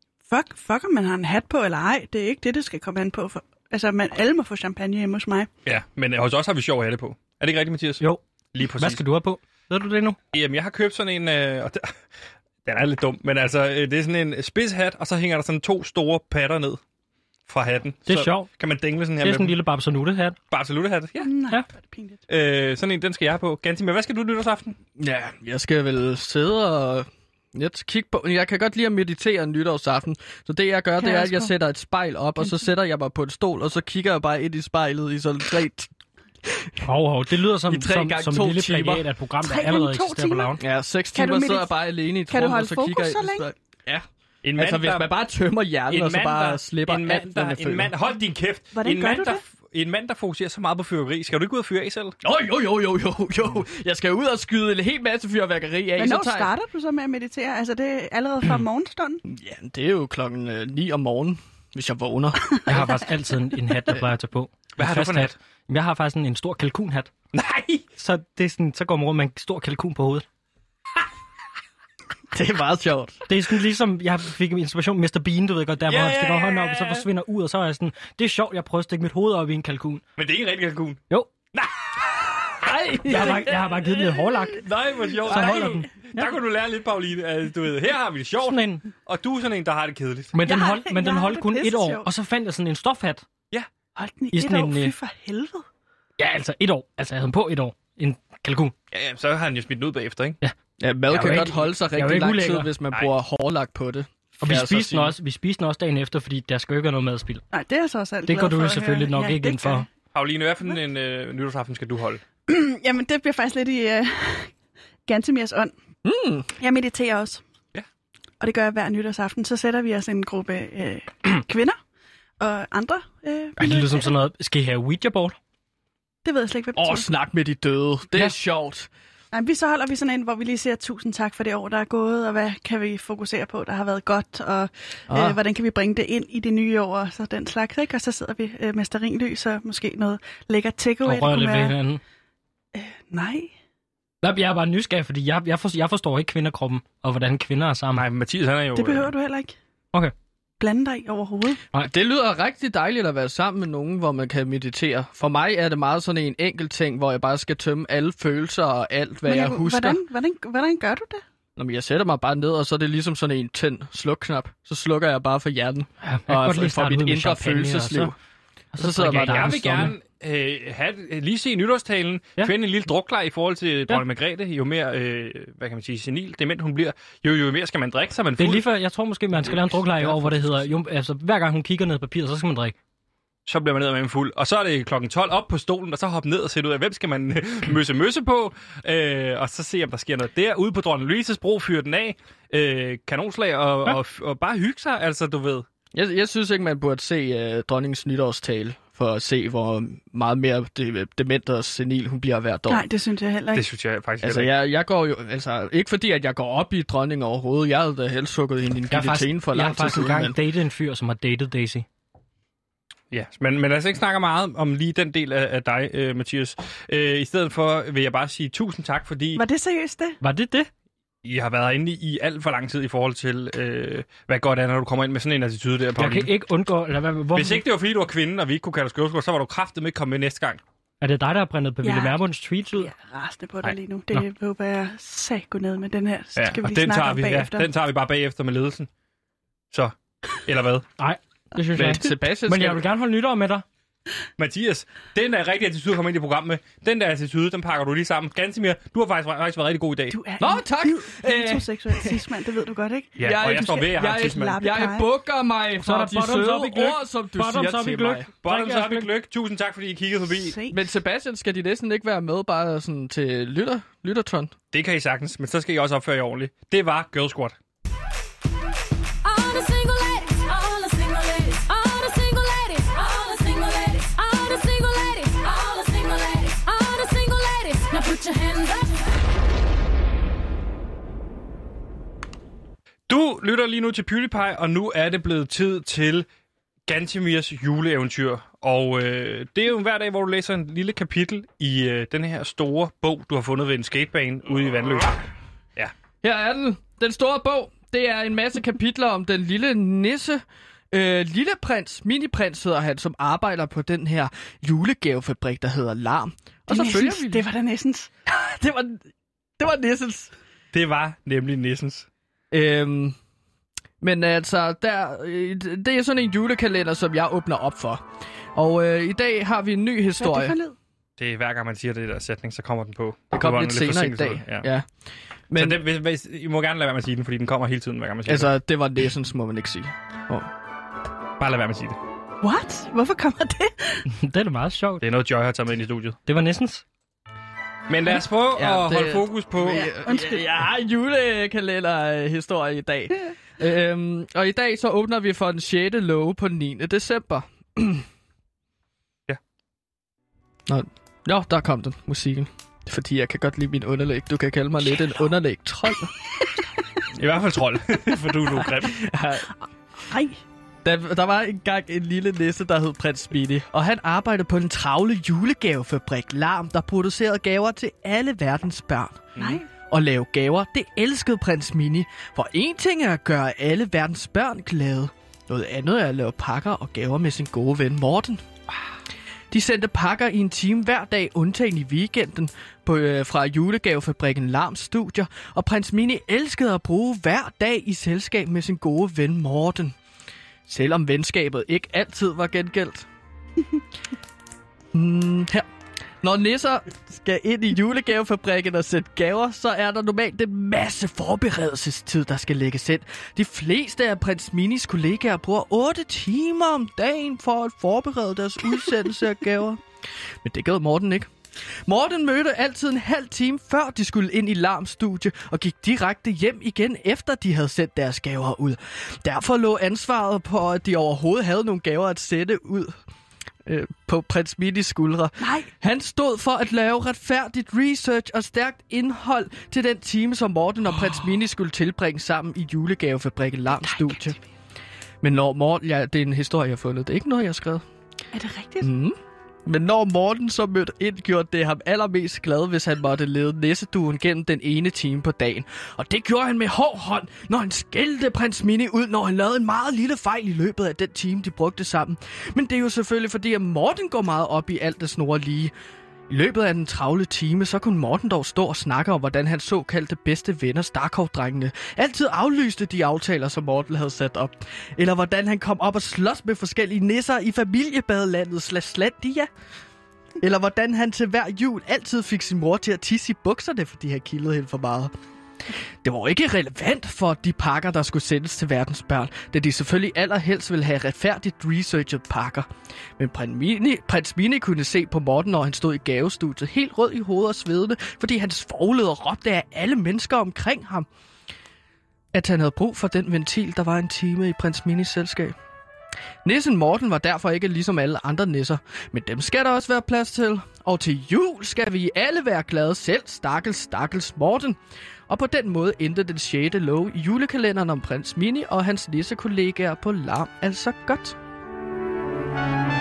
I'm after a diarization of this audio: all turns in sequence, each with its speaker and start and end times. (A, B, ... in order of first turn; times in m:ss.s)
0:00.2-0:05.5 A
0:05.6-0:09.0 B
0:08.0-0:10.2 C
0:10.3-0:11.9 B
0:12.6-0:16.8 B
0:17.5-0:19.6 B
0:18.1-0:18.5 C
0:19.2-0:20.4 C
0:20.5-0:21.3 B
0:21.2-0:22.2 A
0:22.3-0:24.8 B
0:25.0-0:35.9 D
0:31.0-0:31.5 A
0:36.4-0:36.8 D
0:36.8-0:40.6 C
0:37.7-0:39.1 D
0:39.4-0:40.6 A
0:40.6-0:44.0 D
0:41.1-0:41.7 A
0:42.3-0:43.4 A
0:44.4-0:45.1 B
0:44.6-0:47.9 D
0:45.9-0:52.1 B
0:48.7-0:49.4 A
0:52.2-0:56.5 D
0:56.0-0:59.2 A
0:59.2-1:02.6 D
1:02.6-1:07.1 C
1:04.8-1:05.3 B
1:07.3-1:07.8 B
1:08.0-1:10.2 C
1:12.3-1:13.2 D
1:13.3-1:20.0 C
1:15.9-1:17.0 B
1:20.2-1:21.0 B
1:22.7-1:23.4 D
1:22.9-1:24.6 C
1:23.1-1:23.4 B
1:24.5-1:30.3 B
1:25.2-1:26.4 C
1:28.4-1:28.8 C
1:30.3-1:33.2 C
1:30.4-1:32.1 A
1:34.0-1:35.6 A
1:34.3-1:34.9 C
1:36.2-1:38.7 C
1:38.9-1:40.4 B
1:40.8-1:45.2 D
1:41.1-1:42.7 C
1:41.1-1:41.5 B
1:44.4-1:47.4 C
1:47.5-1:49.8 A
1:48.2-1:49.9 C
1:50.1-1:52.2 B
1:52.5-1:54.5 A
1:55.0-1:55.7 A
1:56.0-1:56.5 D
1:56.6-1:57.4 A
1:58.4-2:01.8 A
2:02.4-2:04.1 A
2:03.6-2:05.4 C
2:06.2-2:07.1 A
2:06.8-2:08.9 D
2:09.3-2:21.8 A
2:15.1-2:15.4 D
2:21.0-2:22.0 C
2:22.7-2:23.5 A
2:24.2-2:28.0 C
2:27.9-2:29.1 B
2:28.7-2:29.5 A
2:30.6-2:31.6 A
2:31.8-2:40.0 D
2:39.2-2:41.2 A
2:41.6-2:48.1 D
2:46.0-2:48.1 C
2:48.7-2:49.9 C
2:48.8-2:49.9 D
2:49.2-2:58.6 B
2:58.4-3:02.8 C
3:00.0-3:00.5 D
3:03.4-3:15.6 B
3:15.9-3:22.8 D
3:22.7-3:23.6 A
3:23.5-3:24.5 B
3:24.2-3:30.4 D
3:28.9-3:31.8 C
3:33.1-3:39.4 B
3:39.3-3:40.2 A
3:40.2-3:40.7 C
3:41.2-3:46.3 B
3:46.0-3:47.6 C
3:47.3-3:50.6 B
3:51.0-3:52.9 C
3:51.8-3:52.2 A
3:52.7-3:57.7 A
3:56.4-3:58.9 B
3:59.7-4:00.9 B
4:01.0-4:03.6 C
4:01.7-4:02.8 D
4:04.4-4:10.2 B
4:10.1-4:15.1 A
4:10.4-4:12.2 D
4:13.2-4:14.6 B
4:13.2-4:18.3 D
4:15.8-4:19.1 C
4:18.4-4:20.6 B
4:20.3-4:20.8 A
4:20.7-4:24.5 D
4:24.7-4:27.6 B
4:29.2-4:39.0 E
4:43.1-4:46.2 B
4:46.9-4:55.2 B
4:56.2-5:07.5 D
5:06.7-5:08.1 A
5:08.3-5:09.0 D
5:09.6-5:10.3 D
5:10.7-5:12.1 B
5:12.5-5:13.2 D
5:14.0-5:20.6 D
5:20.2-5:20.8 A
5:21.2-5:24.7 B
5:23.3-5:24.9 D
5:25.5-5:25.8 D
5:25.6-5:28.5 B
5:28.2-5:30.5 D
5:31.4-5:32.0 B
5:32.4-5:34.0 A
5:34.1-5:35.0 C
5:35.0-5:36.2 B
5:36.2-5:36.8 C
5:37.9-5:39.9 B
5:38.5-5:48.0 D
5:39.7-5:40.5 A
5:50.7-5:56.1 D
5:57.2-5:59.0 B
5:58.8-5:59.5 D
6:00.1-6:00.4 A
6:00.8-6:18.4 D
6:09.3-6:09.6 B
6:09.4-6:09.7 A
6:19.5-6:29.9 D
6:30.7-6:33.1 D
6:34.9-6:35.7 D
6:36.2-6:49.8 D
6:50.4-6:51.3 D
6:51.8-7:03.0 D
7:03.6-7:14.4 D
7:05.4-7:05.7 A
7:13.8-7:14.4 A
7:15.2-7:17.8 D
7:18.3-7:18.9 A
7:18.8-7:35.7 D
7:36.3-7:49.5 D
7:50.4-7:55.1 D
7:56.0-8:11.1 D
8:12.3-8:15.5 D
8:16.4-8:31.4 D